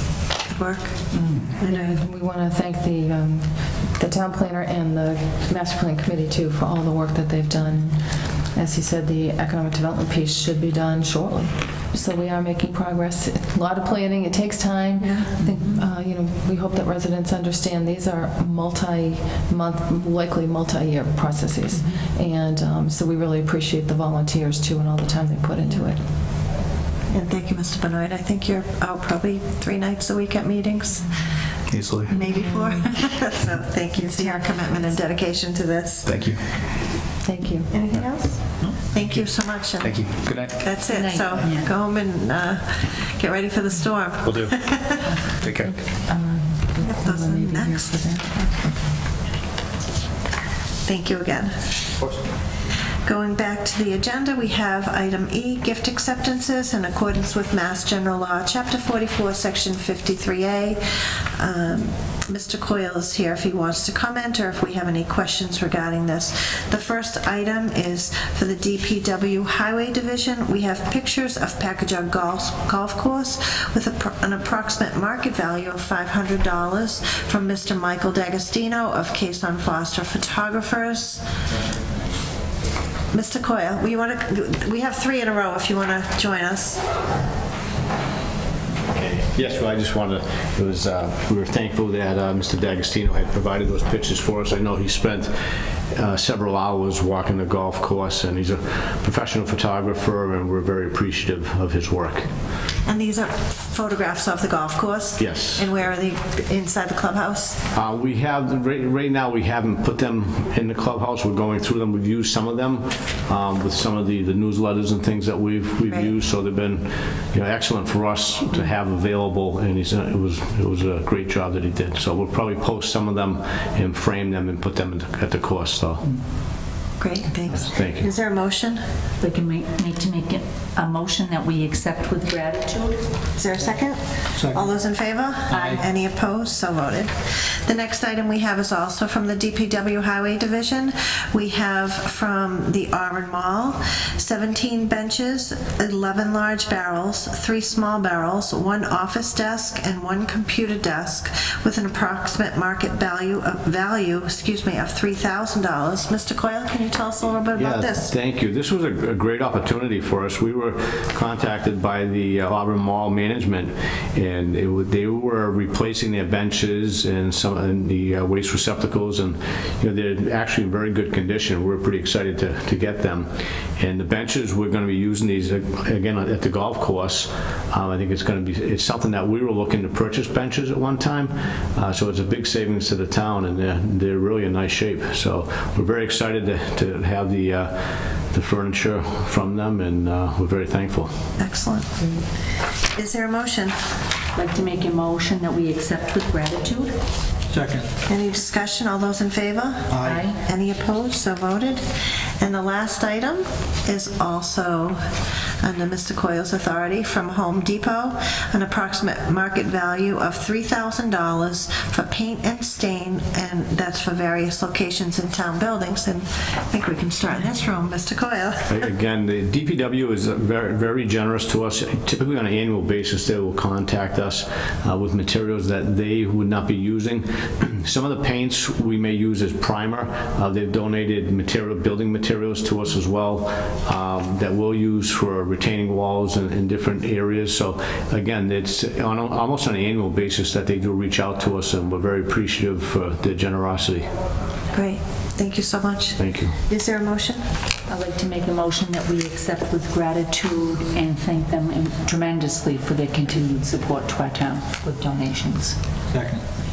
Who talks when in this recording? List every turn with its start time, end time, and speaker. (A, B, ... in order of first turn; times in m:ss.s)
0:00.3-0:02.0 A
0:01.1-0:26.0 B
0:15.0-0:15.3 A
0:15.4-0:15.8 C
0:21.7-0:22.0 C
0:27.1-0:31.4 A
0:31.7-0:32.2 D
0:32.1-0:36.2 A
0:32.2-0:32.9 B
0:34.0-0:34.5 B
0:36.1-0:36.4 D
0:37.2-0:37.8 B
0:37.7-0:45.1 A
0:39.8-0:40.7 D
0:40.9-0:41.7 C
0:45.4-0:45.7 D
0:45.7-0:48.9 B
0:46.8-0:47.9 A
0:50.8-0:51.6 A
0:53.0-1:00.8 A
1:01.4-1:21.2 A
1:23.1-1:26.8 A
1:28.9-1:35.3 E
1:35.9-1:42.3 E
1:42.9-1:47.6 A
1:45.2-1:45.7 E
1:47.7-2:06.1 E
2:07.0-2:08.8 A
2:07.5-2:08.1 E
2:09.2-2:13.0 C
2:13.4-2:38.1 A
2:14.4-2:14.7 F
2:15.5-2:15.8 F
2:37.6-3:07.8 E
3:08.3-3:11.1 E
3:11.4-3:12.1 A
3:12.9-3:13.8 A
3:14.4-3:17.0 C
3:17.5-3:17.9 F
3:18.1-3:21.9 A
3:19.9-3:20.3 F
3:20.0-3:20.4 C
3:22.4-3:25.0 A
3:25.6-3:38.9 A
3:38.7-4:04.1 E
4:04.7-4:07.4 A
4:06.2-4:06.6 E
4:07.9-4:15.8 C
4:16.1-4:16.4 F